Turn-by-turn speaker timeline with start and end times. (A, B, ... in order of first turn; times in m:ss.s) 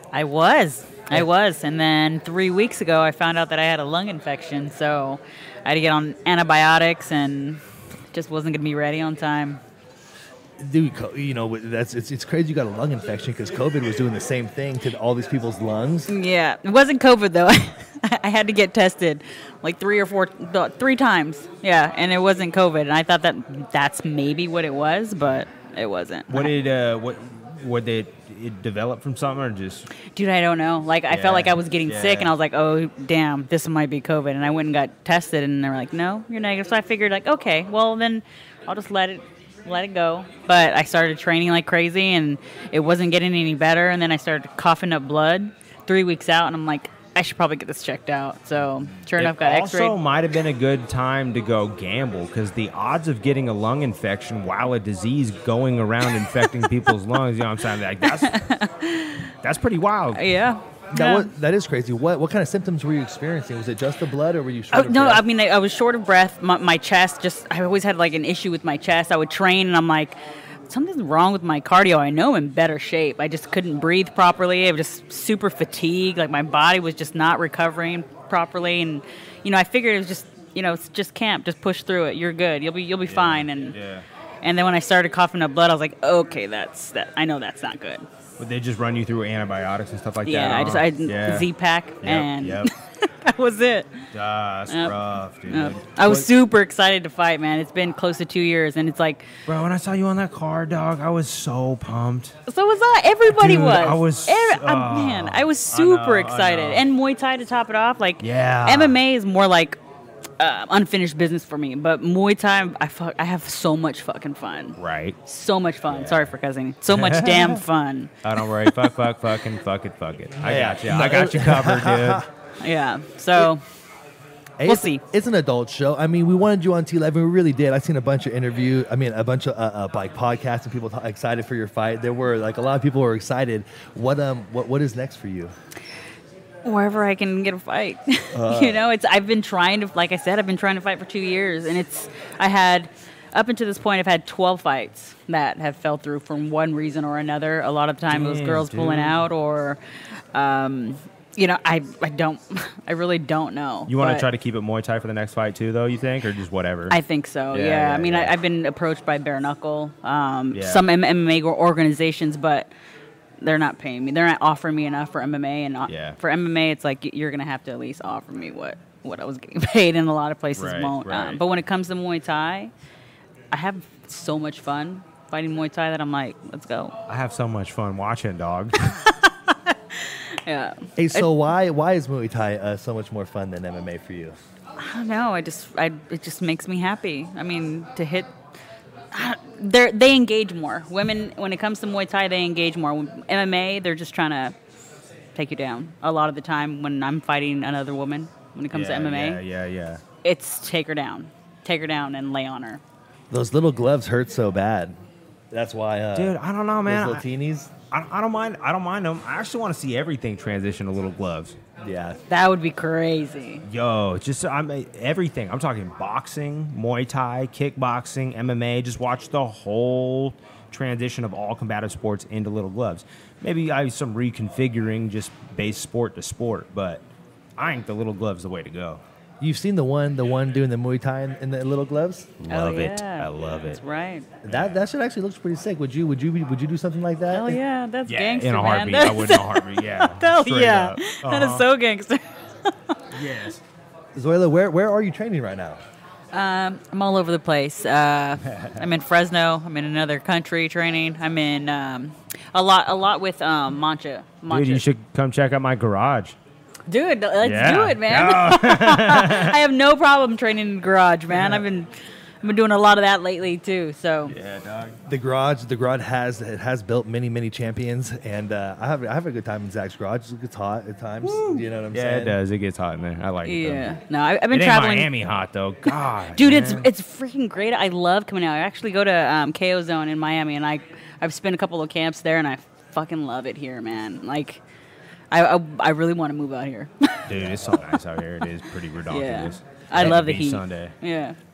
0:00.1-0:07.6 A
0:08.1-0:09.6 A
0:10.6-0:16.1 B
0:16.1-0:26.5 A
0:26.3-0:29.9 C
0:30.1-0:50.0 A
0:31.1-0:32.3 C
0:49.1-0:58.4 C
0:58.0-0:59.3 A
0:59.4-1:00.2 C
1:00.1-1:01.3 A
1:00.9-1:05.2 B
1:04.7-1:10.2 A
1:10.7-1:23.8 A
1:23.1-1:24.0 C
1:24.4-1:28.1 A
1:28.4-1:31.5 C
1:30.2-1:34.0 A
1:32.0-1:32.7 C
1:34.1-1:36.3 C
1:34.7-1:39.3 A
1:39.5-1:42.4 C
1:42.5-1:49.8 A
1:43.3-1:46.9 C
1:48.2-1:49.0 C
1:50.4-1:58.1 A
1:54.8-1:55.2 C
1:55.9-1:56.3 C
1:56.9-1:57.6 C
1:58.2-2:02.2 C
2:00.4-2:02.3 B
2:02.6-2:03.6 A
2:04.6-2:15.5 B
2:04.6-2:05.0 A
2:16.6-2:29.8 A
2:18.3-2:18.8 B
2:28.1-2:29.3 C
2:30.3-2:34.3 A
2:33.9-2:37.0 C
2:36.9-2:42.7 A
2:37.5-2:38.4 C
2:40.5-2:40.9 C
2:43.4-2:52.7 A
2:45.9-2:46.2 C
2:50.6-2:51.4 C
2:53.5-2:57.0 A
2:57.1-2:59.0 C
2:58.9-3:01.3 A
3:01.0-3:04.4 B
3:04.8-3:08.3 A
3:09.1-3:14.6 A
3:15.4-3:19.4 A
3:18.7-3:20.0 C
3:20.2-3:22.8 A
3:23.3-3:25.0 B
3:25.5-3:27.7 B
3:26.2-3:27.3 C
3:27.9-3:31.6 C
3:31.8-3:32.2 B
3:32.3-3:33.6 A
3:33.6-3:47.0 C
3:47.6-3:49.0 C
3:49.4-3:52.3 B
3:52.4-3:53.8 C
3:52.5-3:54.3 A
3:54.4-3:57.6 B
3:54.5-3:54.8 C
3:57.3-4:03.0 A
3:58.1-4:01.6 C
4:03.1-4:03.6 C
4:04.2-4:05.8 B
4:06.3-4:14.9 A
4:14.5-4:16.4 C
4:16.9-4:21.9 A
4:17.4-4:19.6 C
4:21.3-4:21.6 B
4:22.4-4:24.4 A
4:24.3-4:25.0 C
4:25.1-4:32.4 B
4:31.2-4:34.0 C
4:33.4-4:35.1 A
4:34.5-4:36.9 C
4:35.9-4:44.6 A
4:45.3-4:47.9 A
4:47.3-4:50.9 C
4:49.1-4:51.4 A